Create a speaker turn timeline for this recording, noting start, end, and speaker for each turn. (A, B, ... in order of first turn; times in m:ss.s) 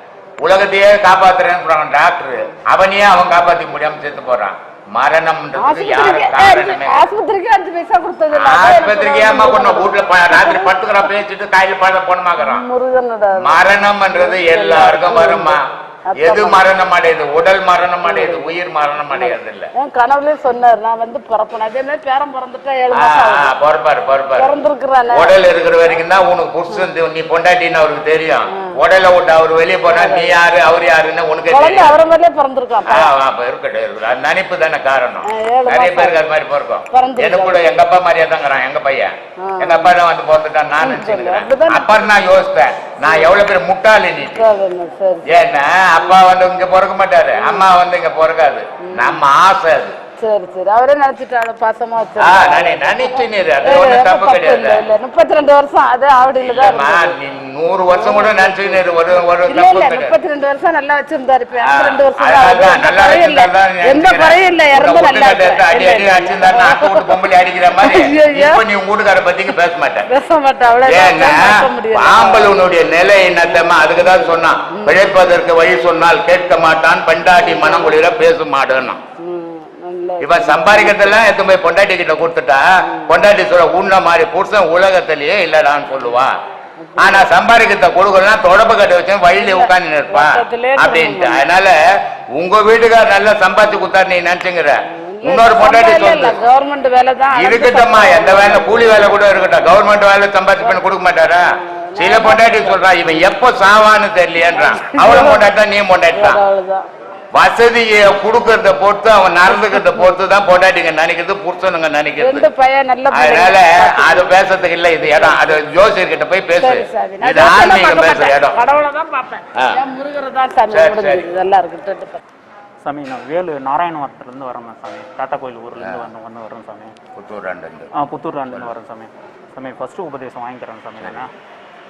0:00.4-0:07.0 A
0:05.6-0:10.7 B
0:08.3-0:12.6 A
0:12.4-0:13.6 B
0:13.4-0:19.7 A
0:14.1-0:16.6 B
0:18.0-0:18.5 B
0:19.1-0:23.5 B
0:22.9-0:24.6 A
0:24.4-0:25.4 B
0:25.1-0:32.0 A
0:29.9-0:30.4 B
0:31.5-0:33.1 B
0:32.9-0:44.5 A
0:35.3-0:36.2 B
0:36.9-0:37.7 B
0:39.4-0:40.0 B
0:40.8-0:41.9 B
0:43.0-0:43.4 B
0:44.3-0:45.3 B
0:45.3-0:50.0 A
0:47.4-0:47.7 B
0:48.9-0:49.2 B
0:50.2-0:57.2 B
0:52.2-0:54.9 A
0:56.4-1:00.2 A
0:57.9-1:07.2 B
1:01.6-1:10.1 A
1:07.8-1:08.6 B
1:10.1-1:12.6 B
1:10.8-1:19.0 A
1:13.3-1:15.1 B
1:17.4-1:18.0 B
1:19.2-1:21.2 B
1:20.2-1:26.4 A
1:22.8-1:23.2 B
1:26.8-1:27.3 B
1:27.0-1:31.8 A
1:29.4-1:31.4 B
1:32.3-1:36.4 A
1:34.9-1:39.3 B
1:37.3-1:46.4 A
1:41.5-1:42.9 B
1:44.6-1:45.5 B
1:46.1-1:46.8 B
1:47.3-1:52.5 A
1:49.5-1:50.1 B
1:52.2-1:54.3 B
1:53.1-1:58.6 A
1:55.0-1:55.6 B
1:56.6-2:02.2 B
1:59.6-1:59.8 A
2:00.7-2:01.4 A
2:02.8-2:07.0 C
2:05.8-2:06.1 A
2:07.2-2:07.9 A
2:08.0-2:11.3 C
2:08.5-2:08.7 A